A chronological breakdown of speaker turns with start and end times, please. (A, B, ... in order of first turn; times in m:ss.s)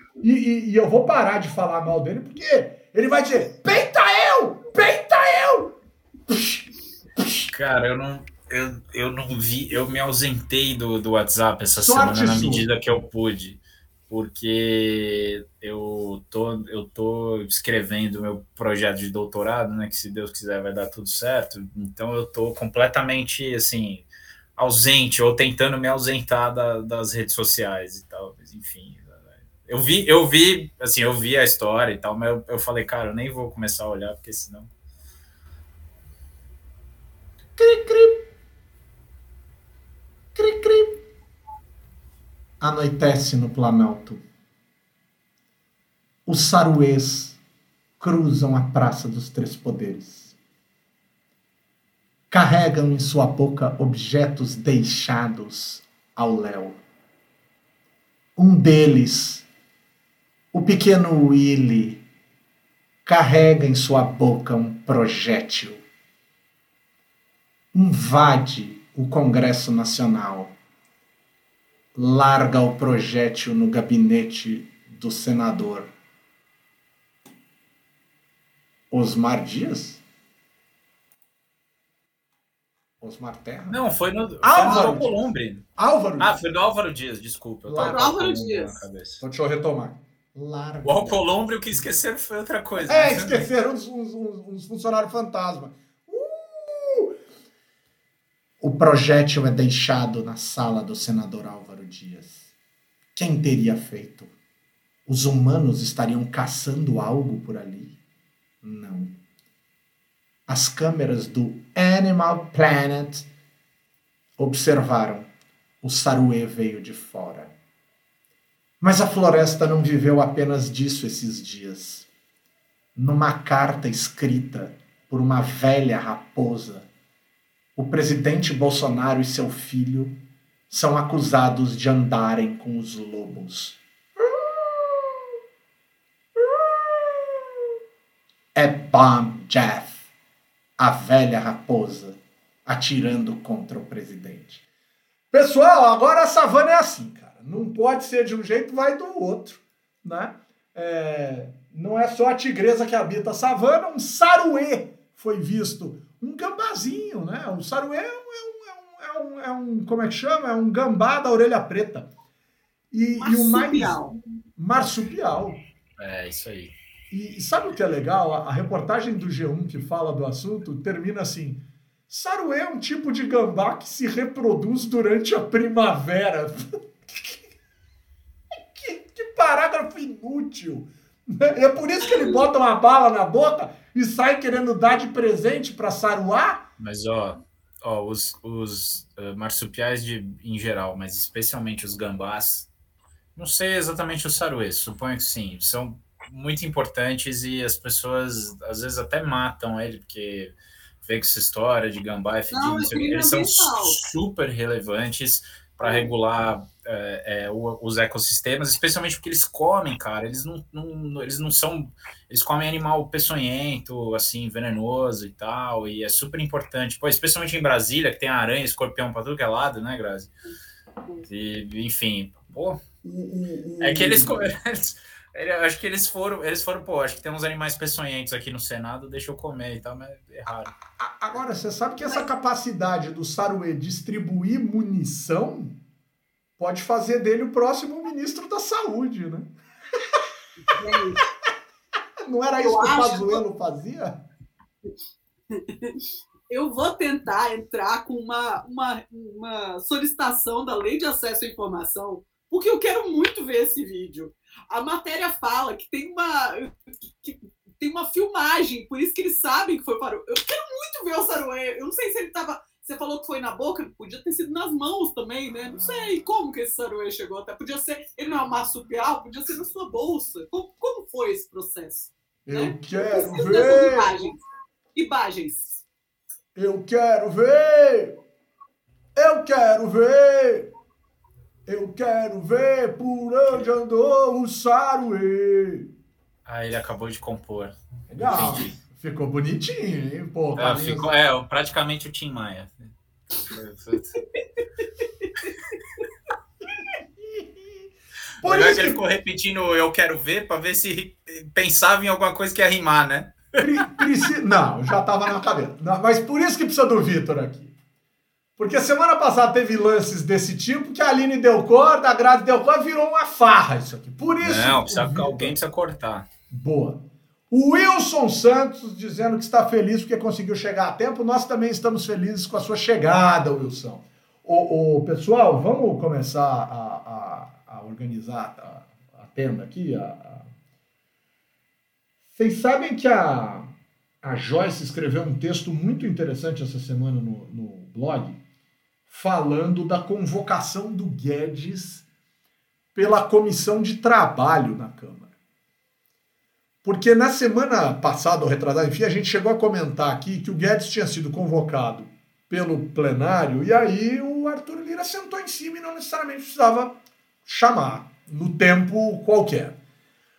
0:00.2-0:05.8 A
0:06.3-0:06.6 A
0:07.2-0:07.5 A
0:07.5-0:34.7 B
0:11.7-0:12.7 A
0:37.6-0:38.3 A
0:40.3-0:41.0 A
0:42.6-0:44.2 A
0:46.2-0:47.4 A
0:48.0-0:50.3 A
0:52.3-0:56.8 A
0:58.4-0:59.4 A
1:00.5-1:02.0 A
1:03.0-1:05.8 A
1:07.7-1:10.5 A
1:11.9-1:15.9 A
1:18.9-1:20.0 A
1:23.0-1:23.8 A
1:23.7-1:25.7 B
1:24.4-1:25.2 A
1:25.8-1:26.4 A
1:26.2-1:29.2 B
1:27.6-1:28.1 A
1:27.8-1:28.8 C
1:29.2-1:31.2 A
1:30.8-1:33.5 B
1:32.8-1:37.2 A
1:38.6-1:42.4 A
1:43.1-1:44.3 A
1:45.1-1:47.9 A
1:48.6-1:49.2 A
1:50.5-1:53.3 A
1:54.4-1:55.3 A
1:55.8-1:57.5 A
1:58.8-2:02.1 A
2:03.0-2:06.9 A
2:07.8-2:10.1 A
2:10.7-2:15.1 A
2:16.4-2:17.2 A
2:18.5-2:20.0 A
2:20.8-2:24.6 A
2:25.3-2:42.1 A
2:42.9-2:44.0 A
2:43.2-2:44.2 C
2:44.6-2:45.6 A
2:46.0-2:46.7 B
2:47.1-2:57.4 A
2:58.7-3:06.6 A
3:06.8-3:12.7 B
3:13.3-3:40.3 B
3:22.5-3:24.0 C
3:25.8-3:26.1 C
3:41.2-3:42.8 B
3:43.0-3:44.5 A
3:43.8-3:50.7 B
3:51.0-3:55.8 A
3:56.6-3:59.5 A
4:00.7-4:01.2 C
4:02.2-4:04.2 A
4:02.6-4:03.4 C
4:05.5-4:06.0 C
4:06.5-4:16.7 C
4:17.2-4:34.4 C
4:32.4-4:34.1 A
4:34.9-4:35.8 C
4:36.5-4:38.2 A
4:39.2-4:40.7 A
4:41.6-4:45.9 A
4:46.4-4:48.7 B
4:48.1-4:51.1 A
4:50.6-4:54.2 B
4:57.2-4:57.8 A
4:58.4-4:59.0 A
4:58.4-5:03.7 B
5:03.6-5:07.7 A
5:08.6-5:15.6 A
5:14.4-5:16.3 B
5:16.5-5:30.5 A
5:32.4-5:33.7 A
5:34.2-5:38.4 A
5:39.1-5:42.0 A
5:42.9-5:45.3 A
5:46.8-5:56.9 A
5:57.4-5:59.8 A